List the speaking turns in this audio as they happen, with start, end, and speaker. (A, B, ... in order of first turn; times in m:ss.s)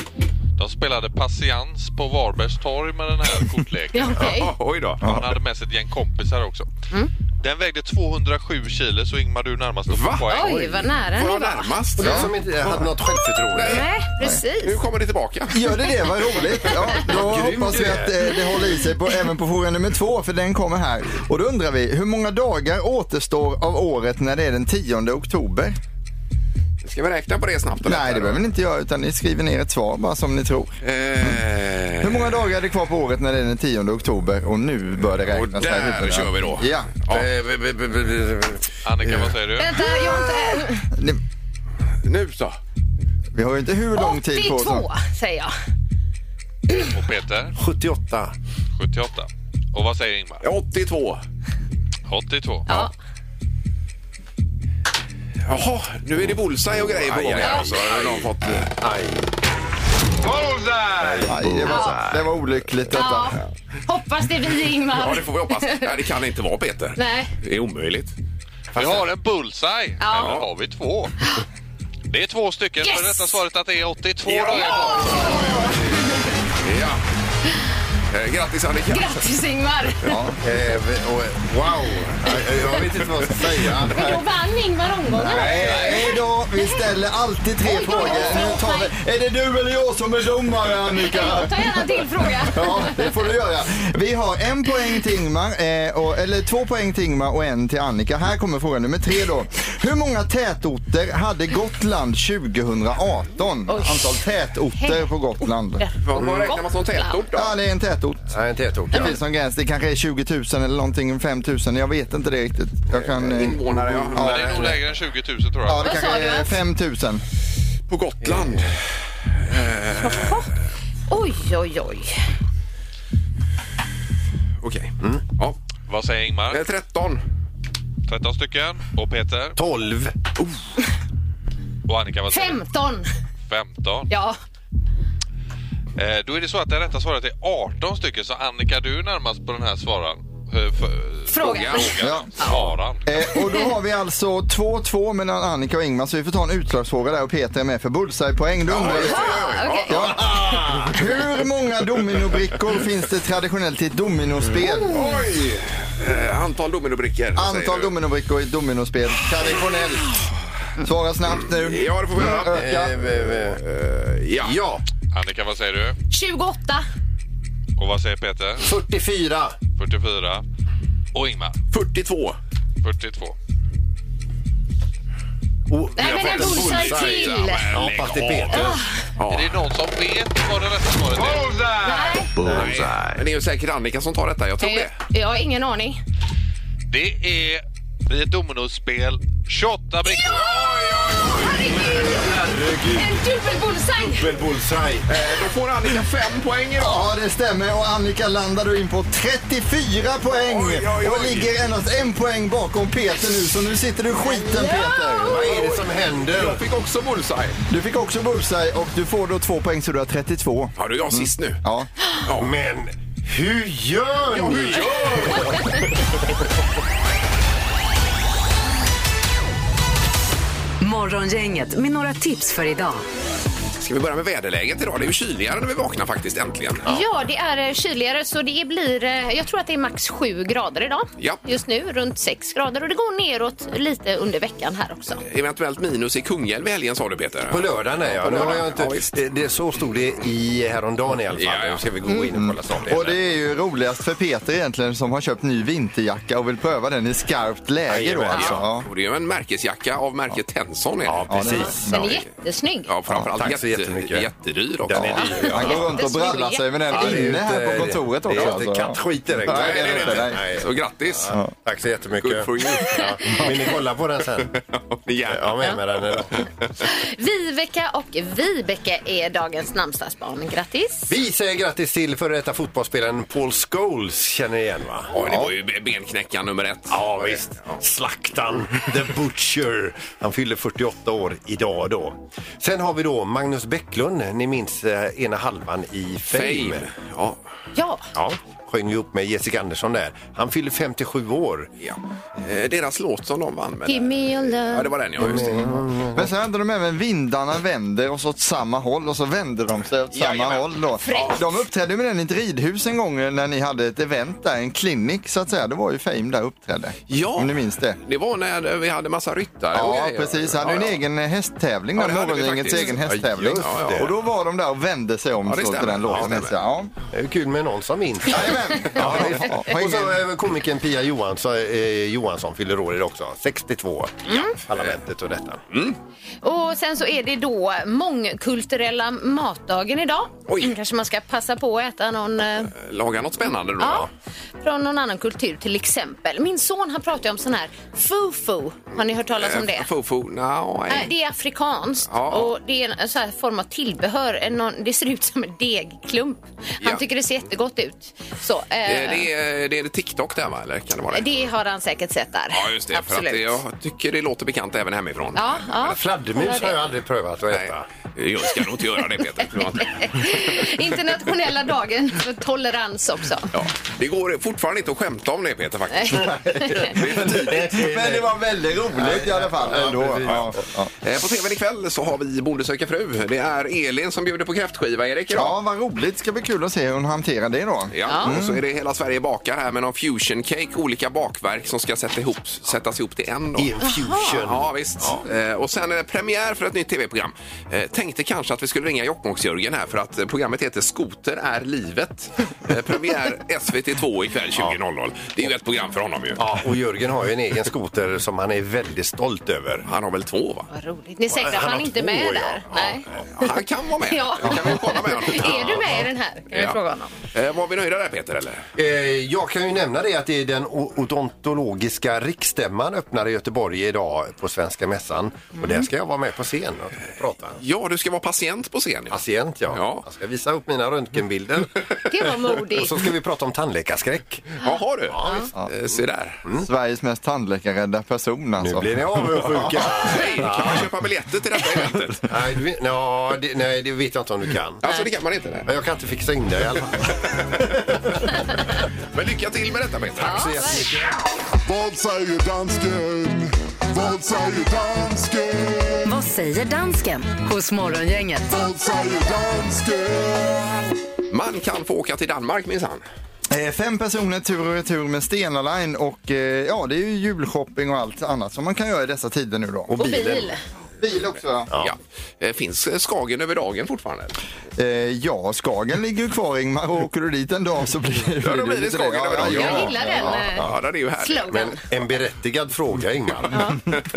0:00.6-0:04.3 A
0:03.9-0:04.6 B
0:04.2-0:05.0 C
0:05.0-0:06.7 A
0:05.0-0:05.3 D
0:07.4-0:10.9 A
0:09.9-0:13.9 C
0:10.3-0:11.7 B
0:12.0-0:13.9 E
0:13.6-0:14.8 B
0:14.6-0:15.7 C
0:15.5-0:25.8 D
0:17.0-0:18.3 E
0:26.8-0:28.4 C
0:27.8-0:31.4 D
0:30.8-0:32.4 C
0:32.0-0:36.9 D
0:35.3-0:37.3 C
0:37.1-0:39.4 E
0:38.8-0:39.7 A
0:39.6-0:40.9 B
0:40.9-0:41.2 D
0:42.0-0:42.6 C
0:43.3-0:44.9 D
0:44.0-0:45.5 B
0:46.9-0:47.5 A
0:47.6-0:48.3 E
0:48.8-0:50.4 A
0:50.4-0:51.2 C
0:52.1-0:52.8 A
0:52.7-0:52.9 B
0:55.5-0:58.7 C
0:56.8-0:59.3 E
0:57.4-0:57.7 B
1:00.9-1:02.3 E
1:01.2-1:03.4 D
1:01.6-1:02.0 B
1:02.9-1:05.9 B
1:04.9-1:08.1 C
1:07.0-1:07.3 B
1:08.8-1:11.1 A
1:08.8-1:09.0 C
1:10.0-1:10.4 B
1:10.1-1:10.5 C
1:12.1-1:15.3 A
1:12.8-1:13.4 B
1:14.6-1:15.4 C
1:15.0-1:16.2 B
1:16.6-1:17.0 C
1:18.1-1:19.2 C
1:18.9-1:20.2 B
1:20.1-1:20.4 D
1:20.4-1:24.2 E
1:23.9-1:26.9 B
1:25.1-1:45.9 D
1:25.5-1:26.1 C
1:27.6-1:28.9 B
1:31.0-1:33.1 B
1:43.7-1:44.2 B
1:44.8-1:45.1 B
1:45.8-1:47.2 B
1:46.0-1:47.6 C
1:46.2-1:46.5 E
1:47.3-1:48.4 D
1:48.3-1:49.2 E
1:48.9-1:54.7 D
1:53.0-1:54.6 C
1:53.1-1:54.8 E
1:54.2-1:55.9 A
1:55.6-1:57.2 D
1:55.8-1:56.6 B
1:57.9-1:58.8 C
1:58.2-1:58.8 E
1:59.4-2:00.4 C
2:00.0-2:00.5 B
2:01.1-2:02.2 B
2:04.6-2:05.6 C
2:05.9-2:06.6 A
2:06.5-2:07.2 C
2:08.1-2:09.6 A
2:09.6-2:10.1 E
2:11.9-2:12.7 A
2:12.3-2:13.1 B
2:13.5-2:14.1 A
2:14.1-2:14.4 B
2:16.0-2:23.2 A
2:21.3-2:21.9 B
2:21.4-2:21.9 C
2:22.0-2:35.2 D
2:23.4-2:23.7 B
2:28.7-2:30.7 C
2:28.9-2:30.0 B
2:30.4-2:30.9 E
2:34.7-2:37.9 C
2:37.4-2:40.1 D
2:40.8-2:42.9 D
2:41.4-2:44.6 C
2:42.2-2:43.6 E
2:44.4-2:44.8 E
2:45.1-2:46.0 A
2:46.1-2:46.8 B
2:47.8-2:48.6 A
2:48.6-2:49.6 E
2:49.8-2:50.4 A
2:51.1-2:51.6 A
2:51.7-2:52.4 C
2:52.8-2:53.4 A
2:55.7-2:58.8 E
2:56.0-2:57.7 B
2:56.0-2:59.6 C
2:58.5-2:59.0 B
2:59.3-3:01.6 A
3:01.8-3:02.3 B
3:02.4-3:03.1 E
3:02.4-3:04.9 C
3:04.6-3:06.0 B
3:06.9-3:10.5 A
3:10.5-3:11.5 C
3:11.3-3:12.4 B
3:11.7-3:13.2 E
3:12.9-3:14.3 B
3:14.0-3:15.1 E
3:15.1-3:17.0 C
3:16.8-3:25.5 D
3:20.4-3:21.5 C
3:24.2-3:25.4 B
3:25.2-3:26.6 E
3:25.4-3:27.6 C
3:27.7-3:31.9 D
3:30.8-3:31.6 C
3:32.2-3:32.5 C
3:32.4-3:35.9 E
3:34.3-3:35.5 C
3:35.2-3:35.8 B
3:40.8-3:43.0 F
3:43.8-3:46.9 C
3:46.9-3:55.2 B
3:55.2-3:59.1 C
3:57.5-4:03.2 E
4:01.4-4:01.9 C
4:02.3-4:08.9 D
4:07.9-4:08.6 E
4:08.3-4:12.0 C
4:11.0-4:12.2 E
4:11.3-4:11.8 D
4:11.8-4:12.9 B
4:12.9-4:15.8 C
4:13.4-4:14.3 E
4:14.9-4:16.0 E
4:15.0-4:20.4 D
4:15.1-4:17.2 B
4:16.9-4:24.5 E
4:18.3-4:18.6 C
4:19.4-4:21.3 C
4:22.2-4:23.5 C
4:24.5-4:26.2 C
4:25.3-4:26.4 E
4:26.8-4:31.1 B
4:31.1-4:35.1 E
4:35.1-4:37.8 C
4:35.2-4:35.5 D
4:36.9-4:46.9 E
4:46.3-4:47.4 C
4:47.8-4:48.1 B
4:48.1-4:51.7 E
4:51.8-4:55.8 C
4:53.9-4:54.9 B
4:55.2-4:56.3 E
4:56.2-5:08.0 D
5:00.1-5:01.4 C
5:01.0-5:01.4 B
5:07.1-5:11.0 C
5:09.7-5:16.9 D
5:12.0-5:13.0 C
5:13.0-5:14.1 E
5:13.6-5:14.1 C
5:15.4-5:16.6 C
5:16.1-5:16.4 E
5:17.1-5:25.6 E
5:18.3-5:20.1 D
5:24.3-5:24.6 B
5:25.7-5:26.0 C
5:26.4-5:32.7 B
5:30.5-5:30.7 C
5:32.7-5:34.1 C
5:33.8-5:34.1 B
5:34.6-5:39.9 B
5:39.4-5:41.1 C
5:40.9-5:49.3 B
5:42.1-5:42.5 C
5:48.9-5:51.2 C
5:51.1-5:53.6 B
5:52.5-5:56.0 C
5:55.4-5:56.8 B
5:55.9-5:57.9 E
5:57.5-6:00.4 C
5:59.4-6:03.5 B
6:03.5-6:07.6 C
6:05.9-6:06.9 B
6:06.2-6:10.9 D
6:06.8-6:08.3 E
6:08.9-6:10.6 E
6:11.0-6:15.6 C
6:15.3-6:18.6 D
6:17.9-6:23.7 C
6:18.0-6:18.4 B
6:23.6-6:25.2 E
6:23.8-6:24.3 B
6:24.3-6:36.4 C
6:36.4-6:39.8 E
6:39.8-6:40.7 C
6:40.7-6:43.5 B
6:41.3-6:43.3 E
6:43.4-6:46.8 C
6:44.1-6:47.1 B
6:45.4-6:46.0 E
6:47.3-6:48.7 C
6:48.8-6:57.6 E
6:55.6-6:55.8 B
6:57.6-6:59.2 C
6:59.1-7:04.6 E
6:59.7-7:00.0 C
7:02.1-7:03.0 B
7:04.6-7:06.4 C
7:05.1-7:05.4 E
7:06.6-7:09.7 D
7:08.6-7:10.9 E
7:09.9-7:12.2 C
7:12.3-7:14.8 E
7:14.8-7:15.7 C
7:15.7-7:18.5 E
7:19.1-7:20.6 C
7:20.2-7:21.1 E
7:20.2-7:20.9 B
7:21.7-7:26.1 G
7:26.1-7:28.5 F
7:28.5-7:30.8 G
7:31.3-7:33.0 C
7:33.5-7:39.9 D
7:39.9-7:40.5 E
7:40.0-7:40.6 B
7:41.0-7:41.7 D
7:41.8-7:44.4 C
7:44.8-7:50.4 D
7:48.4-7:51.5 C
7:49.4-7:50.6 B
7:50.2-7:50.8 E
7:51.2-7:51.8 B
7:51.5-7:53.8 E
7:53.5-7:53.8 B